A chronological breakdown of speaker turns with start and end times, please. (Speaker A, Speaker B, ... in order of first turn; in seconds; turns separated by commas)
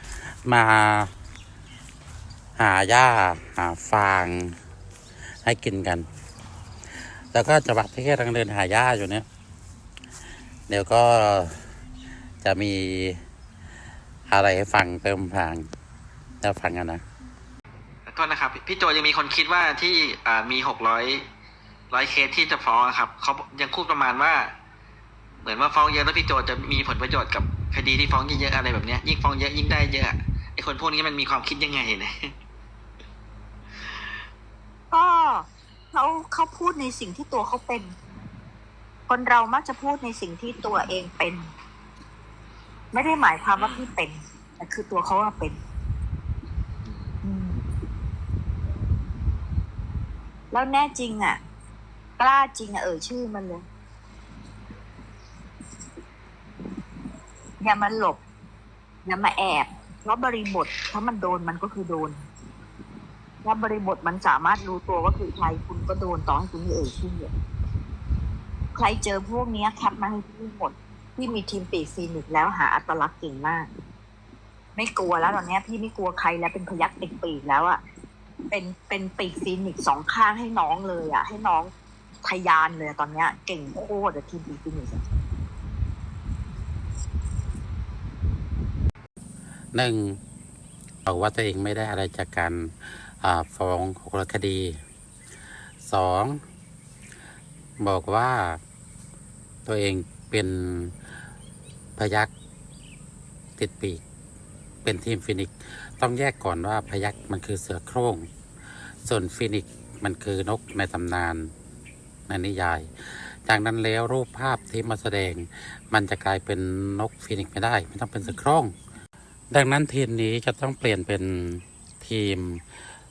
Speaker A: 0.4-1.1, Speaker A: 2.6-4.5, Speaker A: 5.5-6.0, Speaker A: 7.3-9.3, Speaker A: 10.7-11.6, Speaker A: 12.4-13.2, Speaker A: 14.3-15.7, Speaker A: 16.4-17.0, Speaker B: 18.1-21.2, Speaker B: 21.9-24.5, Speaker B: 25.4-32.3, Speaker C: 34.9-37.9, Speaker C: 39.1-41.5, Speaker C: 42.9-45.6, Speaker B: 43.5-43.9, Speaker B: 46.8-47.1, Speaker C: 47.2-47.6, Speaker C: 50.5-51.4, Speaker C: 52.2-53.6, Speaker C: 57.6-58.2, Speaker C: 59.0-62.2, Speaker C: 63.4-67.3, Speaker C: 68.7-73.7, Speaker C: 74.8-77.8, Speaker C: 78.5-81.7, Speaker C: 82.2-85.0, Speaker A: 89.7-90.2, Speaker A: 91.0-94.8, Speaker A: 95.8-96.4, Speaker A: 97.8-98.6, Speaker A: 99.7-100.9, Speaker A: 102.0-102.3, Speaker A: 103.6-104.0, Speaker A: 104.8-108.3, Speaker A: 109.0-111.5, Speaker A: 112.3-118.7, Speaker A: 119.5-122.6